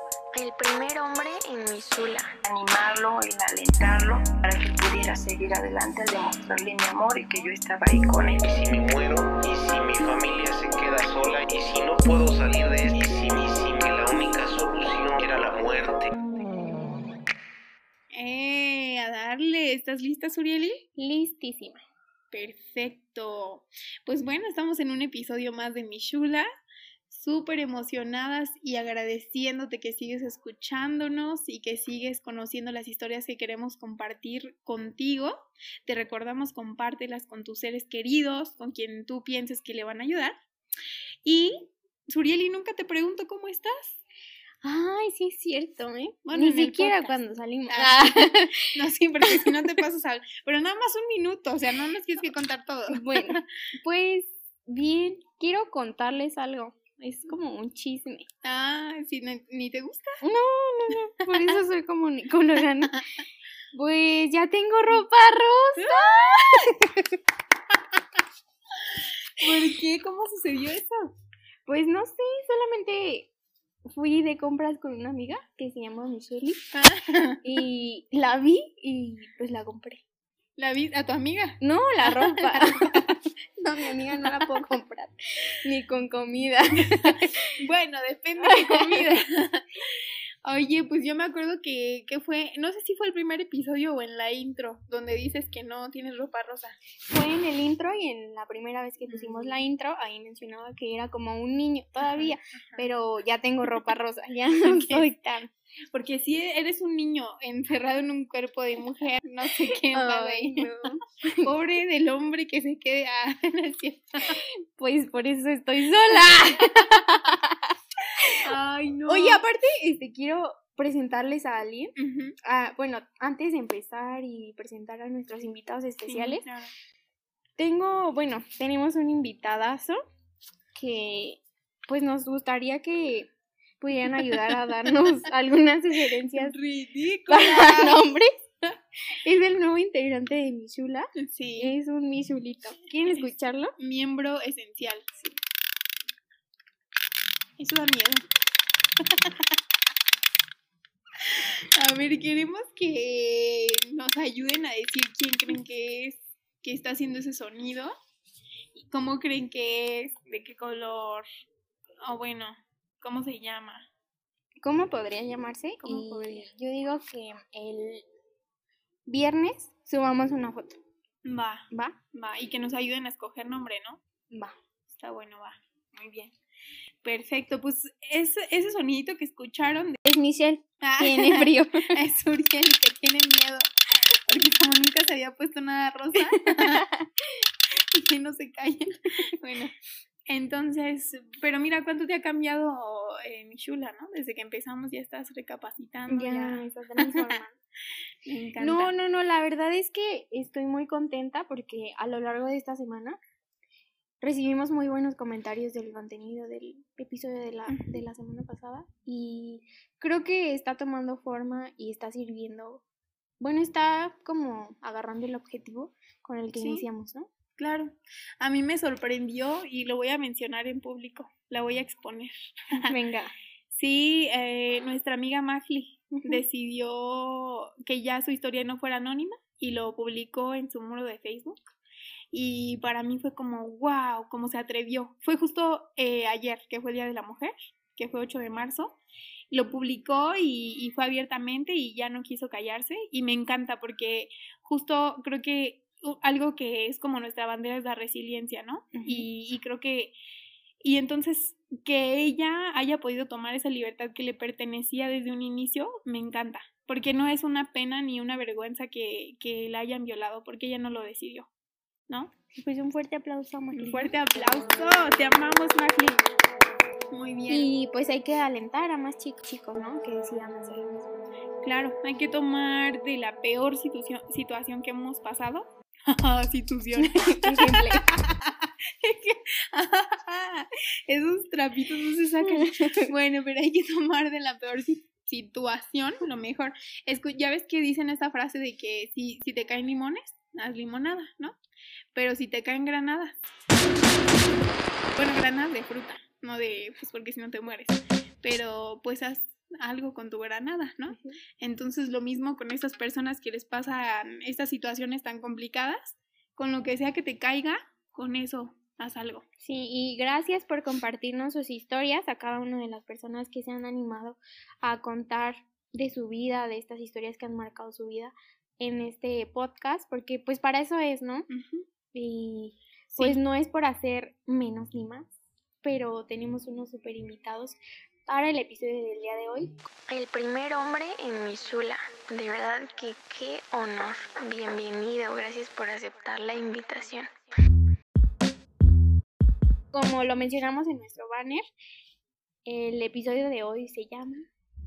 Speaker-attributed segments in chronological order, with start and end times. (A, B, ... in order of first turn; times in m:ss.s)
0:00.3-0:02.3 A
0:02.4-0:08.4 B
0:08.4-0:16.2 C
0:18.1-0:20.8 D
0:21.0-0:21.8 E
0:22.3-0:26.4 D
0:27.1-0:35.3 D
0:35.8-0:40.3 D
0:41.2-0:44.0 D
0:44.6-0:48.7 E
0:46.2-0:53.4 D
0:52.9-0:58.3 E
0:58.4-1:00.2 D
1:00.2-1:03.0 E
1:03.7-1:07.0 E
1:05.8-1:06.7 D
1:08.9-1:11.0 D
1:11.7-1:13.3 E
1:13.9-1:16.6 E
1:16.7-1:17.4 D
1:17.4-1:20.0 E
1:20.6-1:22.9 D
1:21.6-1:27.3 E
1:27.5-1:36.8 D
1:28.4-1:29.2 E
1:37.1-1:45.5 E
1:39.1-1:39.5 D
1:42.0-1:42.8 D
1:44.6-1:45.0 D
1:45.9-1:50.7 D
1:49.9-1:51.5 E
1:51.4-1:54.4 D
1:54.3-1:58.3 E
1:58.4-1:59.4 D
1:59.1-2:06.4 E
2:02.0-2:02.3 D
2:06.1-2:06.7 D
2:07.6-2:10.0 E
2:10.7-2:16.6 E
2:16.4-2:18.0 D
2:17.3-2:18.4 E
2:19.2-2:23.7 E
2:21.2-2:21.7 D
2:23.1-2:25.1 D
2:27.6-2:28.2 D
2:29.1-2:29.5 D
2:31.2-2:37.9 D
2:38.8-2:41.2 D
2:42.0-2:43.9 D
2:44.6-2:48.0 E
2:45.8-2:46.5 D
2:49.0-2:50.8 E
2:51.2-2:54.0 D
2:51.7-2:52.0 E
2:54.3-2:54.6 E
2:54.9-2:56.3 D
2:57.0-3:00.0 D
3:00.0-3:02.0 E
3:00.8-3:03.7 D
3:04.3-3:06.9 D
3:07.8-3:09.7 D
3:10.3-3:17.3 D
3:16.1-3:17.5 E
3:18.2-3:18.9 D
3:18.6-3:23.2 E
3:24.2-3:32.8 E
3:27.7-3:28.0 D
3:33.4-3:37.3 E
3:36.5-3:36.8 D
3:37.6-3:42.9 D
3:42.8-3:43.3 E
3:43.7-3:51.6 D
3:46.1-3:46.4 E
3:52.3-3:59.0 D
3:59.5-4:10.1 D
4:08.9-4:09.3 E
4:10.8-4:21.5 D
4:22.5-4:24.1 E
4:23.7-4:26.3 D
4:27.1-4:27.7 D
4:27.5-4:31.1 E
4:31.6-4:51.6 D
4:37.0-4:38.0 E
4:42.4-4:43.1 E
4:52.1-4:53.4 D
4:55.2-5:09.4 D
5:01.1-5:01.4 E
5:09.6-5:21.4 E
5:21.5-5:21.8 D
5:22.1-5:25.3 E
5:23.1-5:23.4 D
5:25.8-5:29.8 E
5:30.1-5:37.3 A
5:39.9-5:41.6 E
5:42.6-5:44.5 E